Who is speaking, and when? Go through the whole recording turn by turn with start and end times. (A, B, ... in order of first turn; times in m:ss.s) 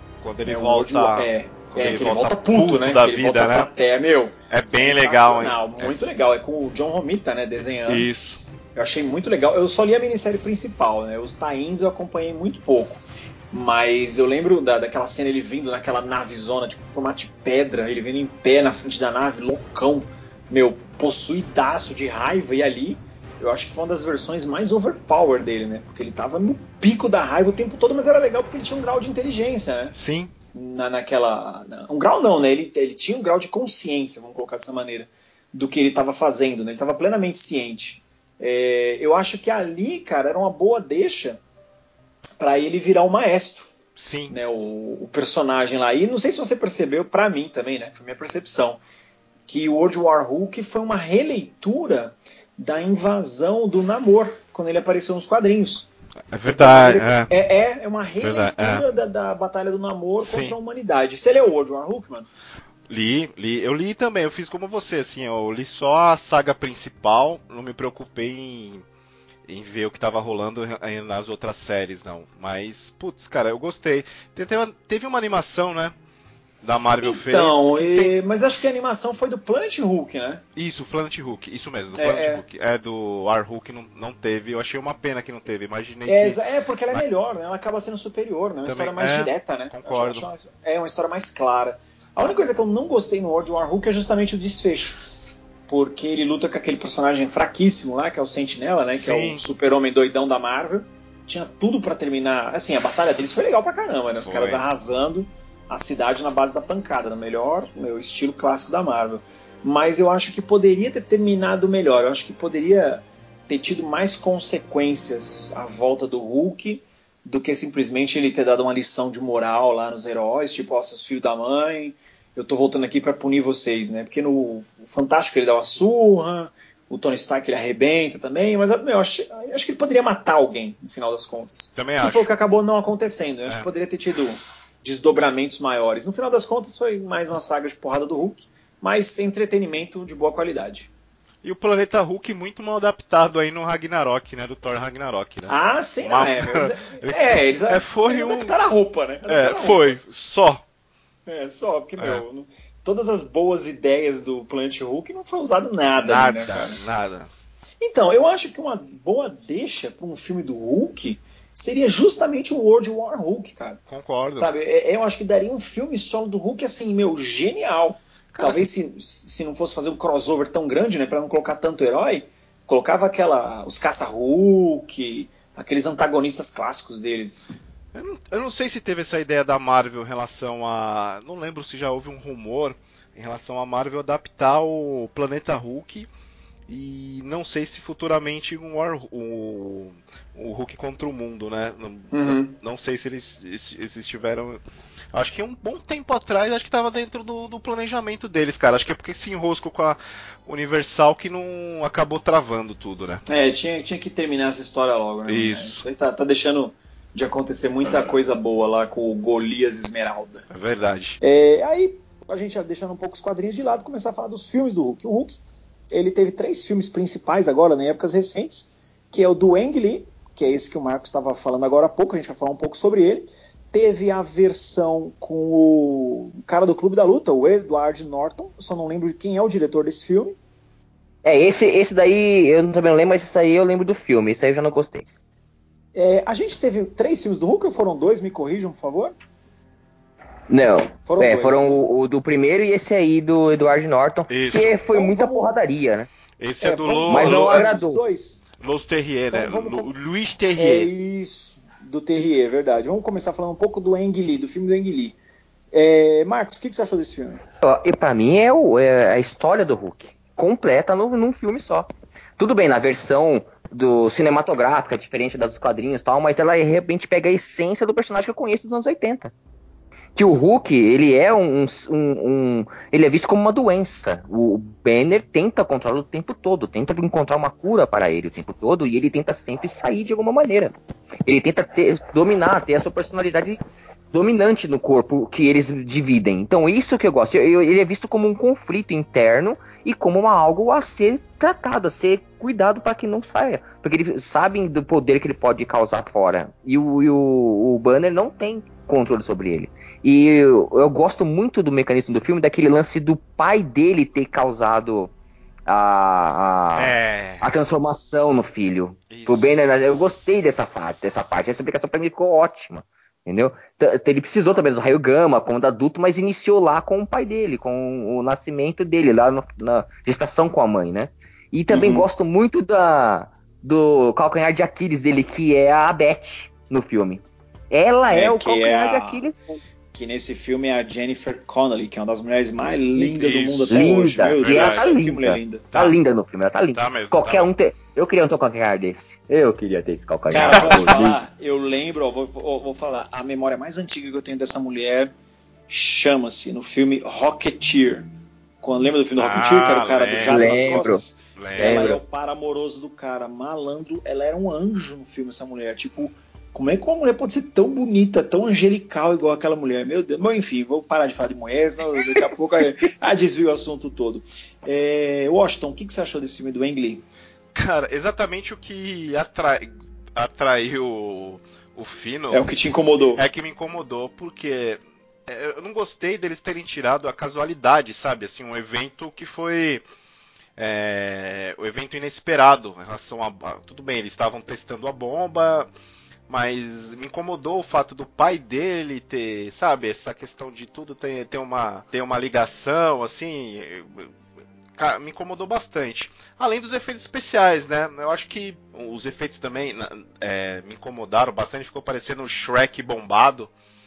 0:00.2-0:03.7 A
0:00.4-0:08.1 B
0:04.5-0:06.0 A
0:07.9-0:08.4 A
0:08.7-0:30.0 B
0:30.0-0:30.3 A
0:30.5-0:41.4 B
0:42.4-0:43.7 B
0:44.0-0:44.4 A
0:44.3-0:48.8 B
0:49.5-0:55.9 B
0:56.3-0:57.3 A
0:56.4-1:02.3 B
0:58.2-0:58.8 A
1:00.2-1:00.6 A
1:02.9-1:08.8 A
1:09.5-1:16.0 A
1:16.6-1:18.1 A
1:17.0-1:20.4 B
1:20.6-1:26.4 A
1:22.0-1:22.4 B
1:26.1-1:35.1 B
1:28.7-1:30.3 A
1:35.7-2:20.9 B
1:39.0-1:39.4 A
1:44.2-1:44.6 A
2:11.8-2:12.3 A
2:21.4-2:28.6 A
2:25.5-2:30.0 B
2:29.3-2:30.6 A
2:31.3-2:36.8 B
2:32.0-2:32.2 A
2:36.0-2:37.3 A
2:37.8-2:43.8 B
2:43.9-2:44.5 A
2:44.4-2:57.6 B
2:48.3-2:48.6 A
2:57.9-3:06.1 A
3:06.7-3:14.6 A
3:12.1-3:12.5 B
3:15.1-3:23.2 A
3:23.3-3:30.4 B
3:25.3-3:25.8 A
3:30.5-3:31.2 A
3:31.2-3:35.4 B
3:35.9-3:50.4 B
3:51.2-3:55.1 C
3:55.9-3:59.2 B
4:00.5-4:06.1 C
4:01.1-4:01.8 B
4:04.3-4:04.8 A
4:04.9-4:05.6 B
4:06.4-4:07.7 A
4:06.6-4:08.4 B
4:07.1-4:08.0 C
4:08.6-4:10.9 A
4:09.3-4:09.9 B
4:10.6-4:15.2 B
4:15.7-4:17.4 B
4:17.6-4:29.3 C
4:30.2-4:40.7 C
4:41.3-4:43.6 C
4:44.1-5:05.1 C
5:05.7-5:29.6 C
5:06.8-5:07.5 A
5:09.1-5:09.5 A
5:21.7-5:22.1 B
5:28.1-5:29.2 B
5:29.9-5:35.7 B
5:33.0-5:34.9 A
5:33.7-5:41.2 C
5:36.7-5:37.5 A
5:40.3-5:41.0 A
5:40.3-5:45.1 B
5:45.7-5:48.1 B
5:48.6-6:07.0 B
5:49.2-5:50.7 A
5:50.2-5:51.0 C
5:51.4-5:52.0 A
5:51.6-5:52.0 C
6:07.5-6:12.5 A
6:12.3-6:13.2 B
6:13.2-6:19.8 A
6:20.6-6:25.7 A
6:26.3-6:34.1 A
6:34.8-6:43.5 A